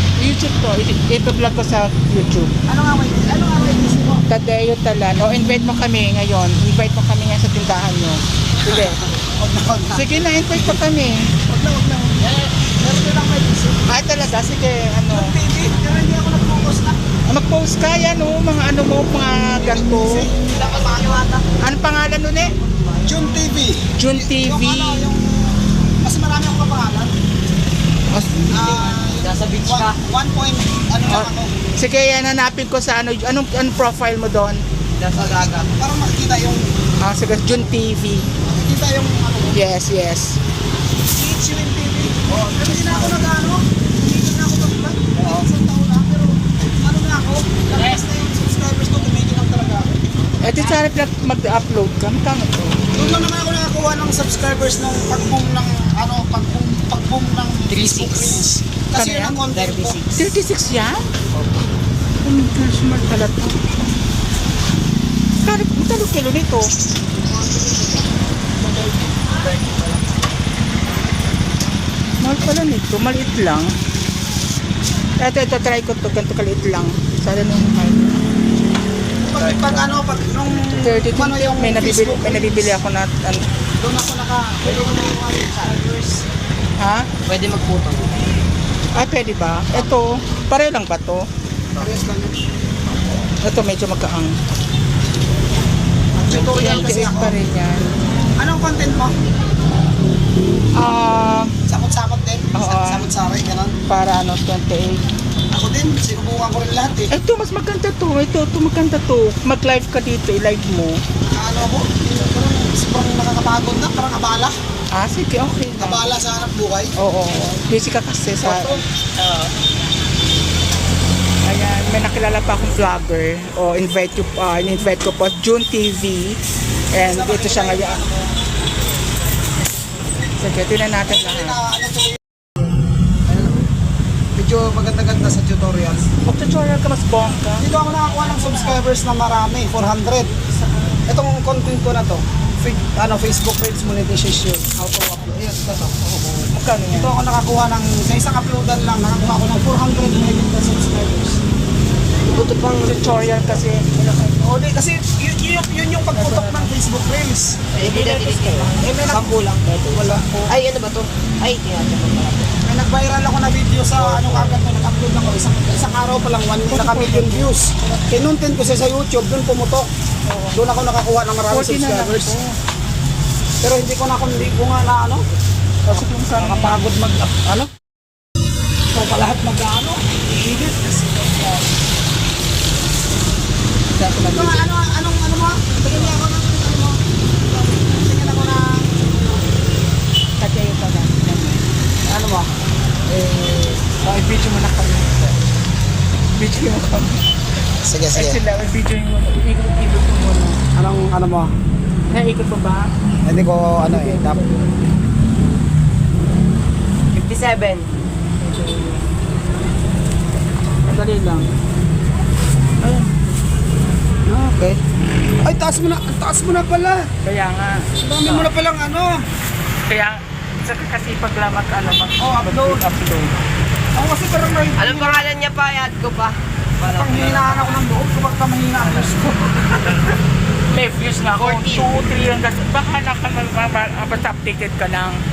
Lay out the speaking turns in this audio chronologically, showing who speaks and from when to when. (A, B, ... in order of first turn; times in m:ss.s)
0:00.2-0:02.5 A
0:02.7-0:04.2 B
0:04.3-0:09.1 A
0:08.6-0:10.2 B
0:09.9-0:11.3 A
0:11.5-0:13.8 B
0:13.9-0:15.4 A
0:15.1-0:17.0 B
0:17.3-0:20.3 A
0:19.6-0:21.4 B
0:20.6-0:21.5 C
0:21.6-0:22.5 A
0:22.4-0:23.4 C
0:23.0-0:27.1 B
0:24.0-0:25.1 A
0:28.1-0:28.7 A
0:28.5-0:31.6 B
0:28.5-0:30.0 C
0:31.1-0:34.6 A
0:35.0-0:35.7 C
0:35.1-0:36.7 B
0:37.0-0:38.3 A
0:38.4-0:39.6 B
0:39.5-0:40.4 A
0:41.1-0:49.9 B
0:42.3-0:43.2 C
0:45.2-0:45.5 C
0:47.8-0:48.0 C
0:50.4-0:52.8 A
0:50.4-0:50.8 C
0:52.9-1:00.0 B
0:57.7-0:58.4 C
0:59.0-0:59.4 A
0:59.5-1:00.1 C
1:00.2-1:01.1 A
1:02.2-1:03.6 A
1:05.4-1:06.7 A
1:07.2-1:08.1 C
1:09.3-1:09.9 C
1:12.2-1:13.7 A
1:15.2-1:18.2 A
1:19.2-1:22.8 B
1:19.4-1:20.3 C
1:20.8-1:23.5 A
1:23.8-1:26.3 B
1:24.6-1:25.7 C
1:26.8-1:27.1 A
1:27.3-1:28.2 C
1:29.0-1:31.3 A
1:31.8-1:32.4 B
1:33.3-1:34.4 A
1:36.2-1:37.4 B
1:36.4-1:37.9 A
1:38.4-1:39.2 B
1:40.8-1:41.6 A
1:41.6-1:43.8 B
1:42.5-1:43.1 A
1:43.9-1:45.1 A
1:45.5-1:47.1 B
1:47.1-1:51.0 A
1:51.4-1:54.5 B
1:54.9-1:56.1 A
1:55.8-1:56.9 B
1:57.0-1:58.8 A
1:58.4-1:58.8 B
1:59.2-1:59.5 C
2:01.4-2:06.4 A
2:06.9-2:08.0 A
2:07.0-2:08.3 B
2:10.4-2:11.6 A
2:11.3-2:12.2 B
2:14.4-2:16.1 B
2:16.2-2:17.7 A
2:17.6-2:20.3 B
2:21.1-2:31.4 B
2:26.5-2:27.2 A
2:32.3-2:33.6 C
2:32.8-2:33.9 A
2:34.3-2:37.7 B
2:36.2-2:36.7 A
2:37.7-2:42.5 C
2:37.8-2:38.8 A
2:38.8-2:39.4 B
2:39.7-2:40.6 A
2:42.6-2:49.9 B
2:44.0-2:44.6 C
2:46.7-2:47.6 A
2:50.3-2:50.8 A
2:50.6-2:52.4 B
2:51.5-2:52.5 A
2:53.6-2:55.2 B
2:55.9-2:57.7 B
2:55.9-2:56.9 A
2:58.9-3:01.7 B
3:04.0-3:04.8 A
3:04.2-3:09.4 B
3:10.4-3:11.6 A
3:12.1-3:12.5 B
3:13.1-3:15.3 A
3:16.4-3:17.2 A
3:17.8-3:18.4 B
3:18.1-3:20.6 A
3:20.8-3:21.5 B
3:22.1-3:22.9 A
3:23.2-3:24.4 B
3:23.8-3:24.8 A
3:27.1-3:27.9 C
3:28.4-3:29.1 A
3:30.9-3:31.5 A
3:32.8-3:33.2 A
3:34.3-3:34.8 B
3:35.4-3:37.1 B
3:37.2-3:37.9 A
3:38.0-3:39.3 B
3:39.9-3:43.4 A
3:42.2-3:42.8 B
3:44.0-3:45.3 B
3:44.8-3:47.8 C
3:46.8-3:49.6 B
3:50.7-3:55.2 A
3:51.4-3:51.9 C